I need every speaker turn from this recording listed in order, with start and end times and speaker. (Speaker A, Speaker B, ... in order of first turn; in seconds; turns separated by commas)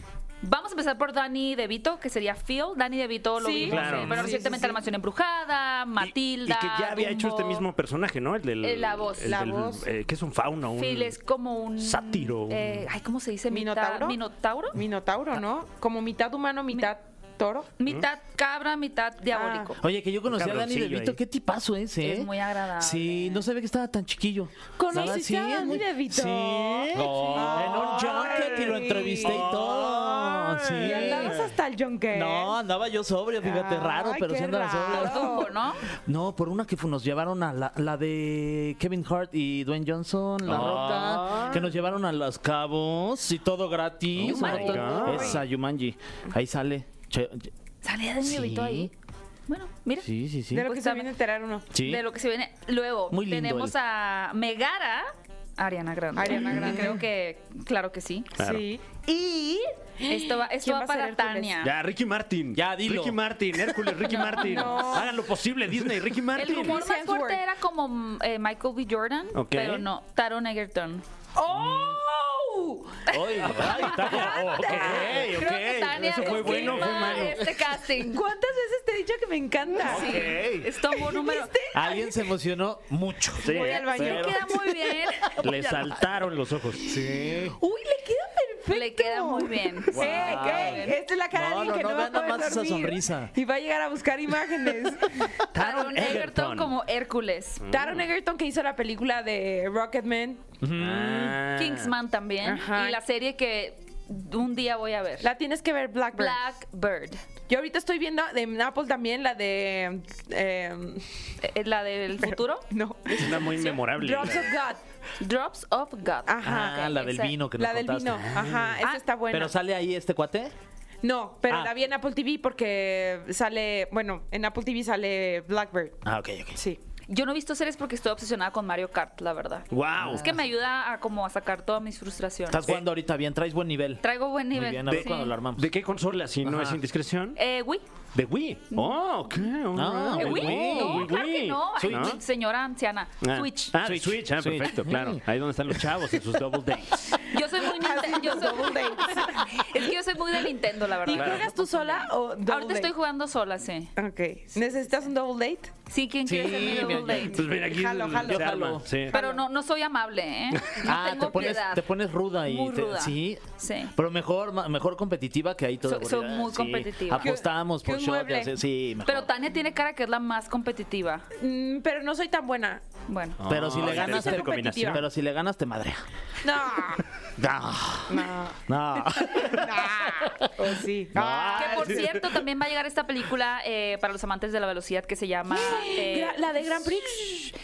Speaker A: 0.4-7.7, Speaker B: 3.4-4.8, Speaker C: 3.6-4.4, Speaker C: 6.0-11.2, Speaker A: 8.6-9.4, Speaker B: 9.3-9.9, Speaker A: 10.8-14.8, Speaker C: 11.8-12.9, Speaker B: 13.5-14.2, Speaker B: 14.7-17.7, Speaker A: 17.8-19.8, Speaker B: 19.3-19.7, Speaker D: 19.8-31.5, Speaker C: 20.3-21.2, Speaker A: 22.0-23.4, Speaker B: 24.8-29.5, Speaker C: 26.9-28.4, Speaker C: 29.2-31.4, Speaker B: 30.8-32.5, Speaker D: 32.1-35.5, Speaker B: 33.4-35.5, Speaker A: 34.9-35.9, Speaker D: 36.0-47.5, Speaker C: 40.4-41.6, Speaker B: 40.7-41.2, Speaker C: 44.2-45.4, Speaker A: 44.4-45.1, Speaker B: 44.4-45.4, Speaker A: 47.8-48.9, Speaker D: 48.2-48.9, Speaker A: 49.5-50.1, Speaker D: 50.0-50.7, Speaker B: 50.5-51.7, Speaker A: 50.6-51.1, Speaker D: 51.7-52.0, Speaker A: 51.8-58.4, Speaker D: 53.1-53.7, Speaker B: 56.1-57.0, Speaker C: 58.4-58.7, Speaker B: 58.4-58.8, Speaker A: 59.0-61.7, Speaker B: 60.0-61.6, Speaker C: 61.6-66.8, Speaker D: 62.5-63.2, Speaker A: 64.1-64.8, Speaker B: 64.1-65.2, Speaker A: 66.4-71.0, Speaker B: 66.4-67.4, Speaker C: 69.3-69.9, Speaker B: 71.3-73.0, Speaker D: 71.5-72.0, Speaker A: 73.1-73.4, Speaker D: 73.1-76.9, Speaker C: 73.4-77.4, Speaker B: 73.8-82.2, Speaker A: 74.8-78.2, Speaker D: 79.8-80.7, Speaker A: 79.9-81.5, Speaker D: 81.7-86.0, Speaker C: 83.4-84.2, Speaker B: 83.5-84.7, Speaker A: 83.9-85.3, Speaker C: 85.4-86.8, Speaker D: 86.8-87.6, Speaker B: 86.9-95.4, Speaker A: 88.7-91.0, Speaker C: 90.0-90.8, Speaker D: 90.0-90.8, Speaker D: 91.3-93.3, Speaker C: 95.5-96.8, Speaker A: 95.6-97.6, Speaker C: 97.6-98.1, Speaker B: 97.7-100.4, Speaker D: 100.6-101.4, Speaker C: 100.8-101.9, Speaker A: 101.5-105.3, Speaker B: 102.4-103.0, Speaker B: 105.2-106.4, Speaker A: 106.1-107.2, Speaker B: 107.5-111.0, Speaker A: 111.4-112.7, Speaker B: 112.2-114.8, Speaker C: 113.1-114.6, Speaker A: 115.2-117.4, Speaker B: 116.2-117.0, Speaker D: 116.4-118.5, Speaker B: 117.5-119.5, Speaker C: 118.2-118.7, Speaker A: 118.8-119.1, Speaker D: 119.3-120.5, Speaker B: 121.0-126.0, Speaker D: 121.5-121.7, Speaker D: 126.0-126.6, Speaker A: 127.1-132.7, Speaker C: 129.7-130.4, Speaker D: 130.0-130.3, Speaker D: 132.5-135.7, Speaker A: 134.0-135.3, Speaker C: 134.6-137.4, Speaker D: 136.4-136.8, Speaker A: 137.4-137.8, Speaker C: 138.2-142.2, Speaker D: 139.7-141.2, Speaker A: 140.2-143.7, Speaker D: 141.8-142.2, Speaker C: 143.2-147.2, Speaker D: 143.8-145.2, Speaker A: 147.3-153.9, Speaker B: 147.7-149.9, Speaker B: 151.0-152.9, Speaker C: 151.1-151.4, Speaker B: 154.0-155.7, Speaker A: 155.9-157.3, Speaker D: 156.2-157.4, Speaker C: 156.5-159.2, Speaker B: 156.6-158.6, Speaker D: 158.1-158.9, Speaker A: 159.1-161.9, Speaker B: 159.1-159.4, Speaker C: 160.5-160.9, Speaker D: 160.8-169.3, Speaker A: 162.4-163.9, Speaker A: 165.8-167.3, Speaker B: 167.2-168.5, Speaker A: 169.0-171.3, Speaker B: 171.4-172.8, Speaker A: 173.1-173.4, Speaker C: 173.4-175.0, Speaker D: 173.5-176.0, Speaker B: 173.7-175.0, Speaker B: 176.4-177.0, Speaker D: 177.4-182.2, Speaker B: 178.1-178.6, Speaker B: 179.3-182.0, Speaker C: 181.2-182.3, Speaker A: 181.6-186.5, Speaker B: 185.5-187.5